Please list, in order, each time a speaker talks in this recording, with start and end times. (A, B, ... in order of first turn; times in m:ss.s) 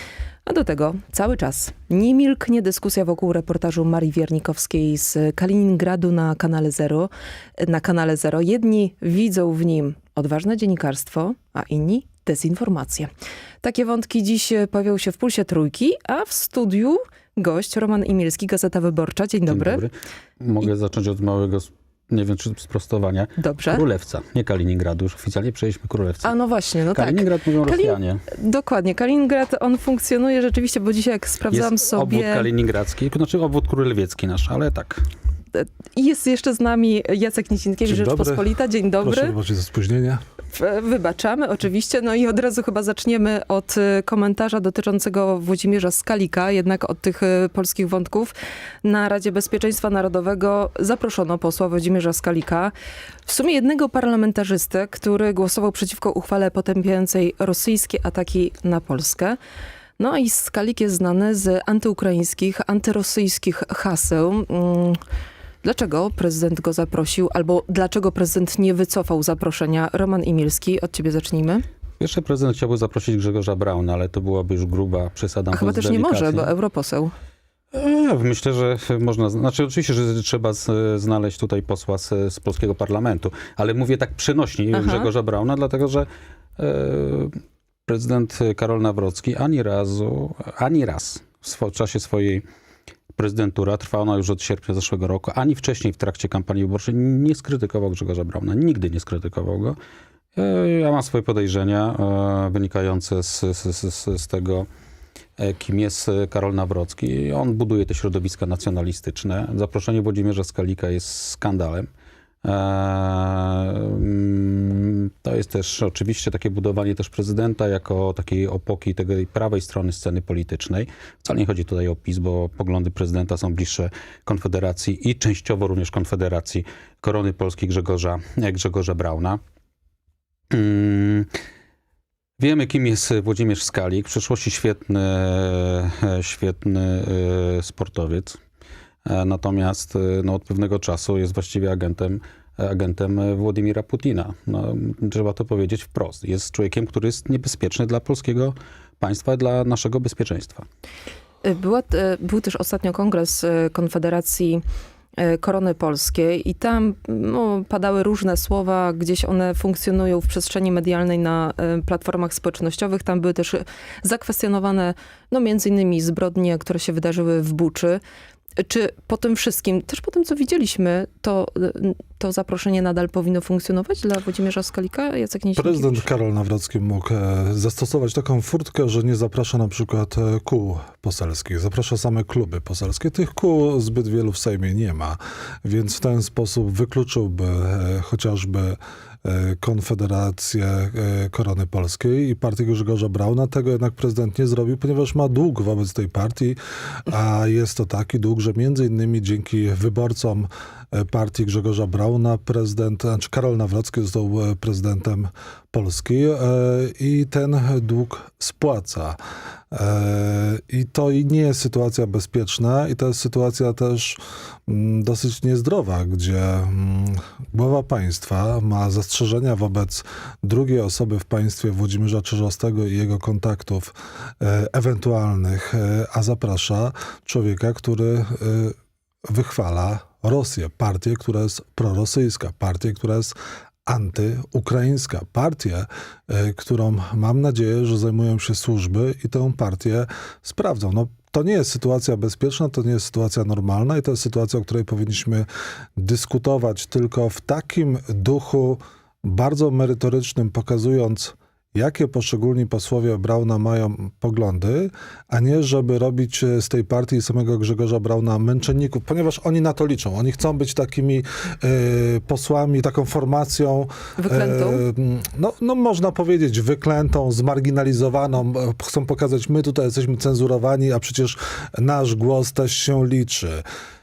0:00.4-0:13.1 A
0:13.6-0:19.8 A
0:19.5-0:26.4 B
0:23.4-0:23.8 A
0:26.2-0:32.5 A
0:26.9-0:28.2 B
0:31.5-0:35.0 B
0:35.5-0:39.4 A
0:37.9-0:38.5 C
0:39.0-0:40.2 C
0:40.5-0:52.7 A
0:53.3-0:59.4 A
1:00.0-1:05.0 A
1:05.6-1:11.6 A
1:12.0-1:16.5 B
1:15.5-1:17.1 A
1:17.7-1:26.1 B
1:24.7-1:25.1 A
1:26.6-1:32.4 B
1:33.2-1:39.8 B
1:40.4-1:44.7 B
1:45.4-1:51.9 B
1:52.4-2:09.4 B
2:10.5-2:11.3 B
2:12.4-2:18.4 B
2:19.1-2:30.6 B
2:31.4-2:34.6 A
2:35.2-2:48.0 A
2:48.6-2:56.0 A
2:55.6-3:29.2 C
3:29.7-3:48.8 C
3:49.3-4:33.6 C
4:24.2-4:24.8 A